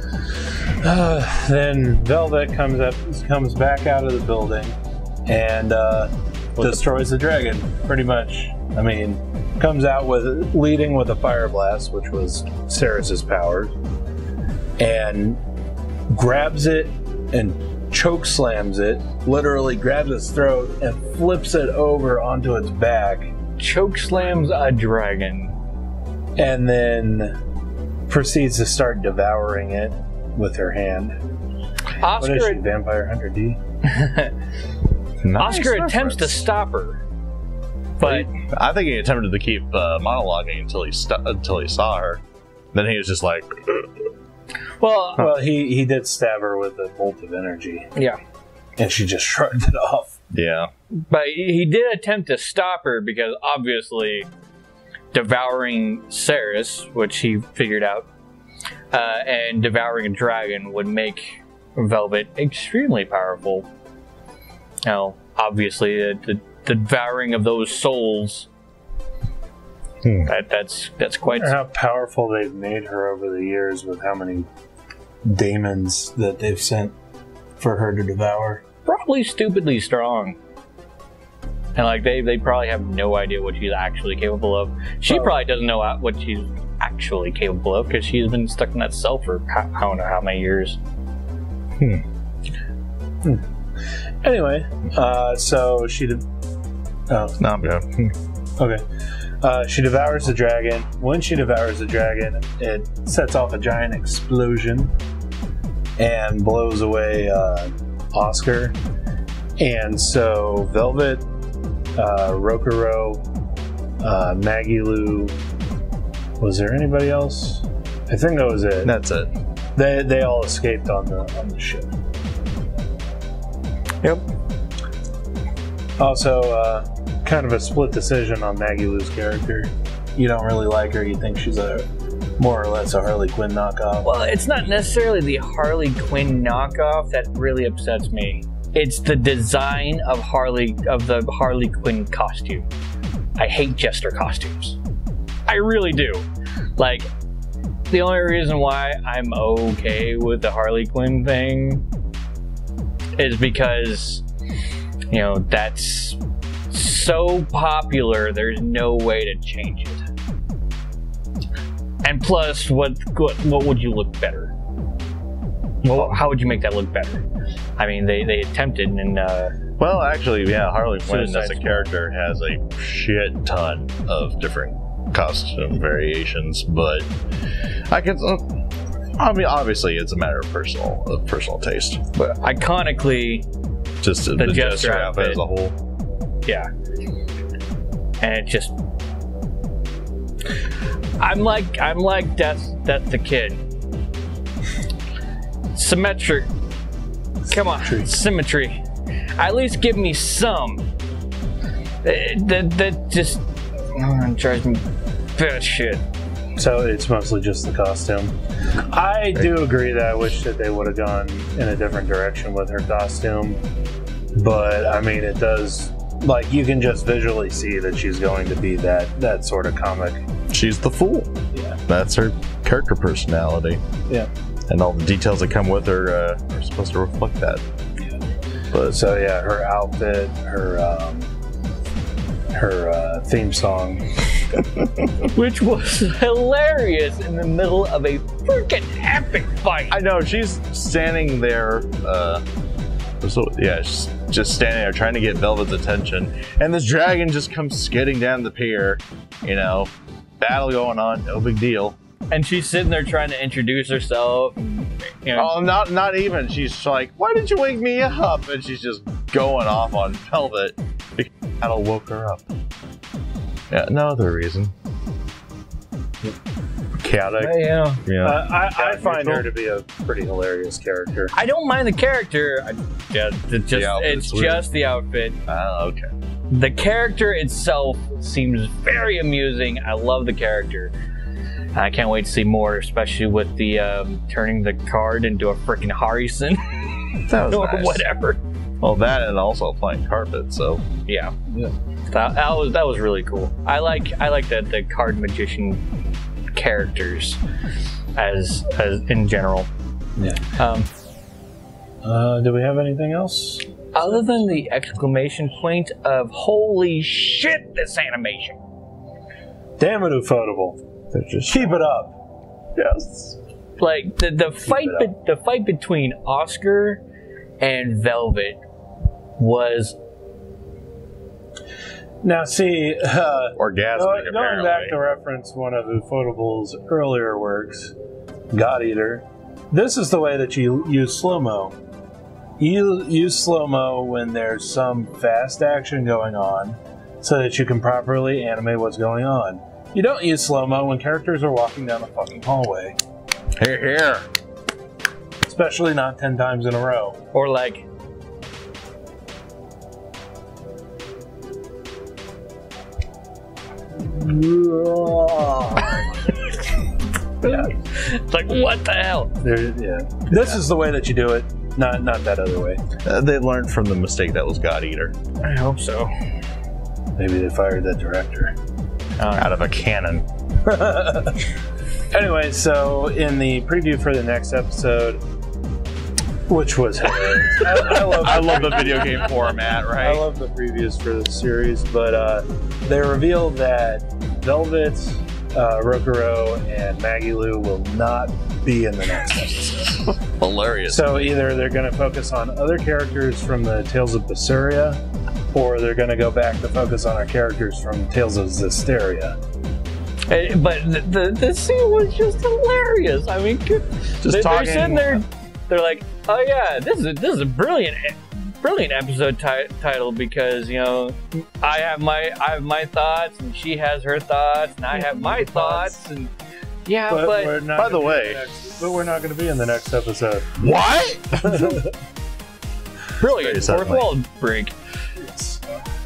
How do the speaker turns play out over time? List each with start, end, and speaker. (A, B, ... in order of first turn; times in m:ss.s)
0:00.8-0:13.7 A
0:06.6-0:06.8 B
0:14.8-0:15.4 A
0:16.1-0:23.3 A
0:23.6-0:25.6 B
0:26.4-0:27.3 A
0:28.1-0:31.2 A
0:32.0-0:32.6 B
0:32.2-0:33.6 A
0:33.8-0:34.3 B
0:35.2-0:36.4 C
0:35.4-0:37.0 B
0:38.0-0:38.3 B
0:38.0-0:42.2 C
0:42.7-0:43.9 C
0:44.8-0:45.2 B
0:45.2-0:47.9 A
0:48.8-0:50.2 A
0:50.3-0:50.7 C
0:51.1-0:54.3 B
0:55.1-0:58.1 B
0:58.9-1:03.7 B
1:04.8-1:08.5 B
1:10.0-1:10.3 C
1:10.2-1:11.5 B
1:11.3-1:14.5 A
1:15.2-1:16.9 A
1:17.6-1:18.6 A
1:18.8-1:20.4 B
1:21.7-1:30.8 B
1:25.1-1:25.3 A
1:34.2-1:36.2 A
1:37.1-1:37.4 A
1:37.4-1:38.1 C
1:38.6-1:38.8 A
1:39.4-1:44.9 A
1:46.0-1:48.8 A
1:49.6-1:51.2 A
1:52.0-1:53.2 A
1:54.0-1:55.3 A
1:56.4-1:58.9 A
1:58.8-1:59.3 C
1:59.8-2:01.9 A
2:06.0-2:11.8 A
2:12.4-2:14.1 A
2:14.0-2:22.6 B
2:23.4-2:24.8 B
2:25.4-2:27.1 B
2:27.9-2:31.8 B
2:33.2-2:34.2 B
2:35.1-2:40.0 B
2:42.0-2:44.5 B
2:45.8-2:47.2 B
2:45.9-2:46.2 C
2:47.8-2:49.5 B
2:49.8-2:57.1 C
2:51.0-2:51.9 B
2:57.9-2:58.4 C
2:59.2-3:02.0 C
3:02.1-3:03.4 B
3:04.0-3:05.7 C
3:04.4-3:05.4 B
3:08.2-3:08.7 B
3:11.2-3:13.6 B
3:15.7-3:16.5 B
3:17.4-3:18.8 B
3:17.8-3:18.1 A
3:19.4-3:20.8 B
3:22.0-3:26.0 B
3:26.6-3:33.6 A
3:34.3-3:40.2 A
3:40.5-3:41.3 C
3:41.5-3:41.8 A
3:41.9-3:43.8 C
3:44.7-3:47.6 C
3:48.7-3:49.0 C
3:48.9-3:51.3 A
3:52.5-3:54.0 A
3:55.3-4:00.0 B
3:59.9-4:02.4 C
4:03.2-4:12.0 C
4:12.3-4:15.5 B
4:15.3-4:22.5 C
4:23.7-4:24.7 C
4:27.0-4:27.4 C
4:27.4-4:28.0 B
4:28.0-4:28.9 C
4:28.2-4:31.3 A
4:28.8-4:29.4 B
4:31.3-4:35.4 B
4:33.7-4:34.6 C
4:35.5-4:36.1 C
4:36.5-4:40.9 B
4:41.7-4:48.4 B
4:47.3-4:48.0 C
4:48.8-4:50.8 C
4:51.0-4:51.3 B
4:52.1-4:55.8 B
4:56.5-4:57.4 B
4:58.1-4:59.7 B
5:00.6-5:00.9 B
5:02.0-5:04.4 A
5:03.9-5:08.6 B
5:09.8-5:10.8 A
5:11.1-5:11.8 C
5:11.5-5:12.1 A
5:12.8-5:13.4 C
5:13.8-5:17.0 B
5:14.6-5:15.1 A
5:17.6-5:18.6 B
5:19.4-5:20.0 B
5:22.2-5:27.9 A
5:23.6-5:25.0 C
5:28.5-5:31.7 A
5:32.6-5:43.0 A
5:43.6-5:44.3 C
5:45.4-5:47.2 A
5:47.3-5:47.8 B
5:54.0-5:56.3 A
5:57.4-5:59.4 B
5:57.4-5:57.7 A
5:59.4-6:02.8 A
6:03.0-6:05.1 C
6:05.4-6:06.1 B
6:07.2-6:08.5 A
6:09.2-6:09.6 B
6:09.4-6:10.2 C
6:10.6-6:11.4 A
6:12.1-6:15.2 A
6:16.5-6:19.2 A
6:17.6-6:20.2 C
6:20.0-6:30.0 A
6:30.0-6:31.0 C
6:30.9-6:35.0 A
6:35.5-6:39.4 A
6:40.3-6:56.3 B
6:44.2-6:45.2 C
6:54.9-6:55.9 A
6:56.8-6:57.6 B
6:57.1-7:00.5 A
6:57.7-6:58.4 C
7:00.6-7:01.8 C
7:01.4-7:01.9 A
7:03.2-7:04.7 B
7:03.3-7:04.1 C
7:05.2-7:05.6 A